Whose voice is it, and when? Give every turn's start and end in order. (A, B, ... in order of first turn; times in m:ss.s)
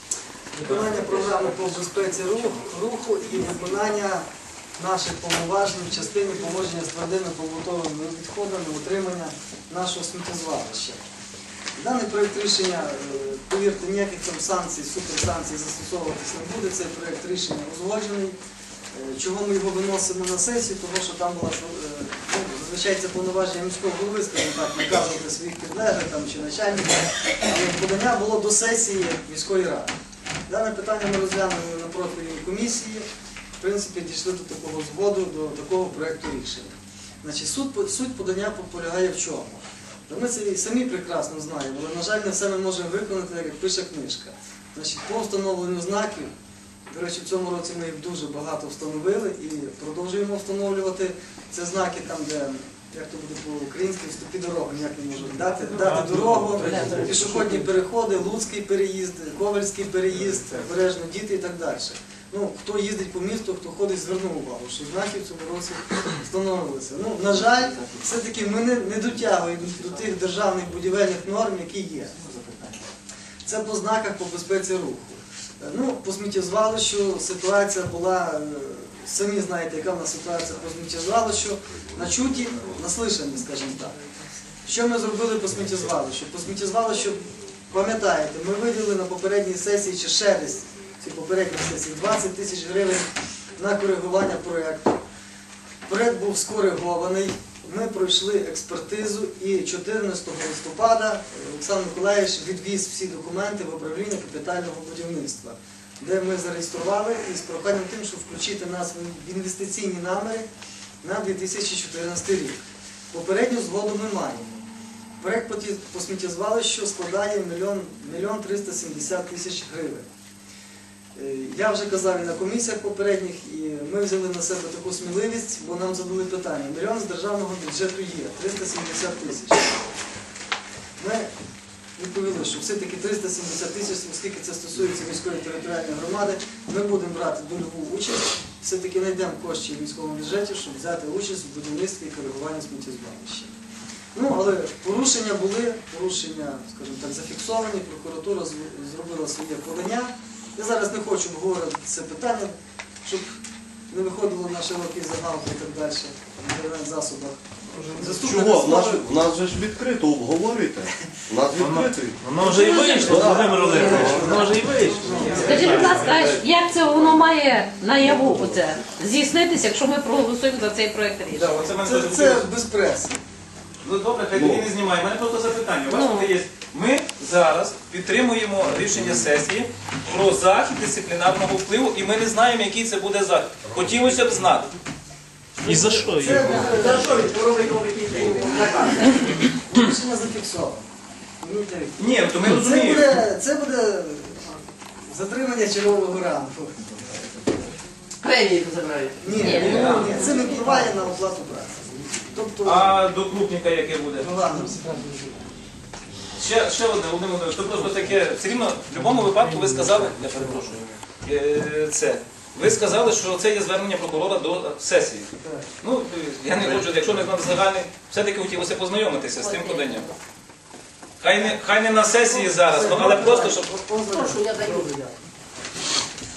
0:00.5-0:04.2 A
0:04.8-0:11.0 A
0:11.8-0:18.4 A
0:18.9-0:29.9 A
0:30.5-0:33.0 A
0:33.6-0:46.3 A
0:46.9-1:12.7 A
1:13.4-1:24.0 A
1:24.6-1:35.0 A
1:35.9-1:50.5 A
1:51.0-1:52.6 A
1:53.1-1:54.6 A
1:55.2-2:00.1 A
2:01.1-2:09.7 A
2:11.0-2:11.3 A
2:12.0-2:23.5 A
2:24.1-2:33.4 A
2:33.9-2:37.4 A
2:37.8-2:38.1 B
2:37.9-2:39.1 A
2:38.2-2:42.2 C
2:41.5-2:46.5 B
2:42.4-2:44.3 D
2:42.9-2:45.6 A
2:43.0-2:46.4 C
2:45.3-2:51.6 D
2:48.0-2:48.6 C
2:51.3-2:52.5 B
2:51.8-2:53.2 A
2:53.8-3:04.7 B
2:54.3-2:54.6 C
2:55.9-2:56.3 D
3:05.6-3:07.6 A
3:05.6-3:06.9 B
3:06.6-3:09.1 E
3:08.1-3:10.8 A
3:11.4-3:17.3 A
3:12.0-3:13.2 B
3:18.2-3:19.7 E
3:19.2-3:22.9 A
3:19.3-3:20.0 D
3:19.6-3:20.2 B
3:22.6-3:24.4 B
3:24.2-3:25.0 A
3:26.4-3:35.3 B
3:35.8-3:40.1 B
3:39.4-3:40.1 D
3:41.2-3:43.7 B
3:42.4-3:45.1 A
3:44.1-3:45.0 E